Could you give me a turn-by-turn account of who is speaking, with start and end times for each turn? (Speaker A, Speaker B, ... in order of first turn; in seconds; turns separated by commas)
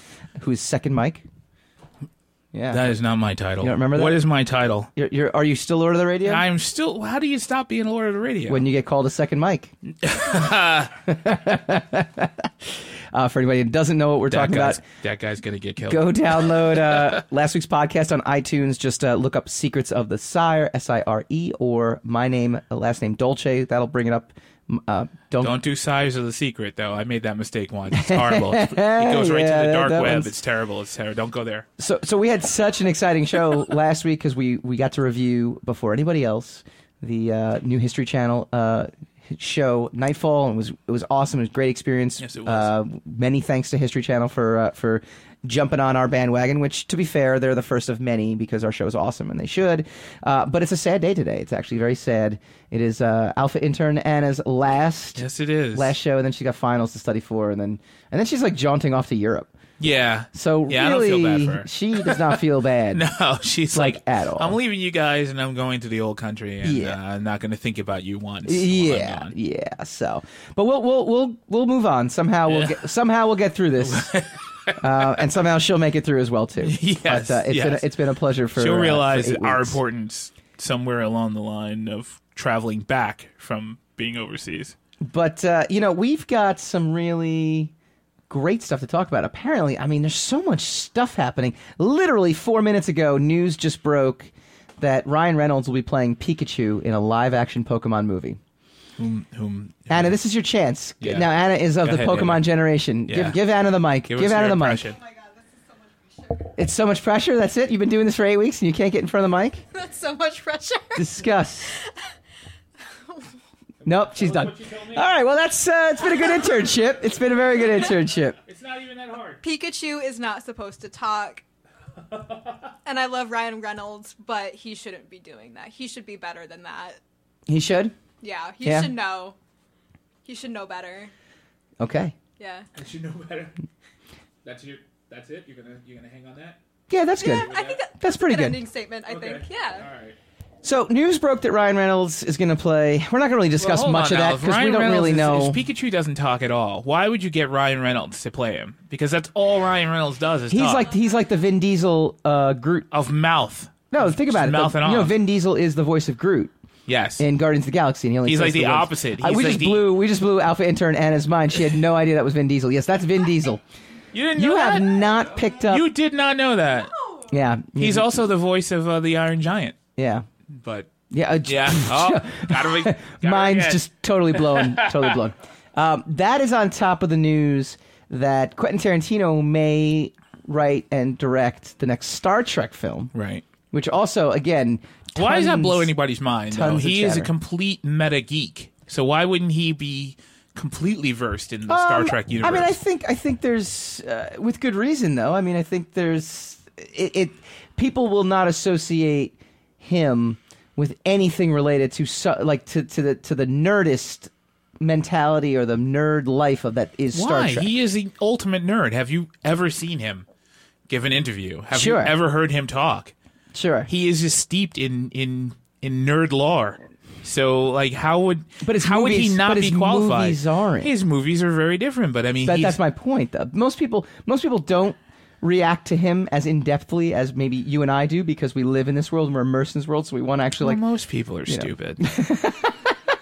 Speaker A: 0.4-1.2, Speaker A: 2.5-2.9, Speaker B: 2.7-4.9, Speaker A: 3.6-4.2, Speaker A: 5.0-6.4, Speaker B: 6.2-8.6, Speaker A: 8.5-9.7, Speaker B: 10.0-10.9, Speaker A: 11.1-14.8, Speaker B: 14.3-17.1, Speaker A: 15.8-25.6, Speaker B: 25.4-31.7, Speaker A: 27.9-30.3, Speaker A: 31.8-59.5, Speaker B: 42.2-42.7, Speaker B: 55.1-55.9, Speaker B: 59.8-62.4, Speaker A: 60.3-63.1, Speaker B: 62.9-69.3, Speaker A: 63.7-64.6, Speaker A: 66.6-67.0, Speaker A: 68.5-74.1, Speaker B: 72.5-72.8, Speaker B: 73.8-74.8, Speaker A: 74.8-79.8, Speaker B: 76.6-77.9, Speaker B: 78.5-84.7, Speaker A: 85.0-87.7, Speaker A: 88.3-98.4, Speaker B: 99.0-100.2, Speaker A: 99.9-104.9, Speaker B: 101.0-102.5, Speaker B: 103.0-103.4, Speaker B: 104.0-105.0, Speaker C: 105.0-106.5, Speaker A: 106.6-109.6, Speaker C: 109.7-111.8, Speaker A: 111.0-111.7, Speaker A: 113.8-118.4, Speaker B: 113.8-115.0, Speaker B: 118.4-119.4, Speaker C: 119.4-121.4, Speaker B: 122.1-122.6, Speaker C: 122.8-127.0, Speaker A: 127.5-127.9, Speaker C: 128.2-129.3, Speaker A: 128.6-128.9, Speaker C: 130.2-131.1, Speaker A: 131.8-132.2, Speaker C: 132.4-132.6, Speaker B: 132.7-133.5, Speaker B: 134.4-136.6, Speaker A: 136.9-138.6, Speaker C: 137.2-139.9, Speaker B: 137.2-137.8, Speaker B: 139.1-140.2, Speaker A: 140.6-145.6, Speaker B: 143.6-150.9, Speaker A: 150.5-152.9, Speaker B: 152.9-155.1, Speaker A: 153.9-156.5, Speaker B: 156.9-157.2, Speaker A: 157.2-163.6, Speaker B: 158.2-160.0, Speaker B: 164.1-165.0, Speaker A: 164.3-165.9, Speaker B: 165.6-166.9, Speaker A: 167.3-168.2, Speaker B: 167.8-169.8, Speaker A: 170.0-170.2, Speaker B: 170.5-170.9, Speaker A: 171.1-183.1, Speaker B: 171.4-175.2, Speaker B: 183.1-183.4, Speaker A: 183.7-185.9, Speaker B: 185.2-192.8, Speaker A: 186.5-187.3, Speaker A: 191.7-204.3, Speaker A: 204.8-207.7, Speaker B: 207.1-210.2, Speaker B: 210.9-213.1, Speaker A: 211.7-212.2, Speaker A: 213.5-213.9, Speaker B: 213.9-222.8, Speaker A: 218.6-220.9, Speaker A: 222.4-230.8, Speaker B: 230.6-232.0, Speaker A: 231.5-232.9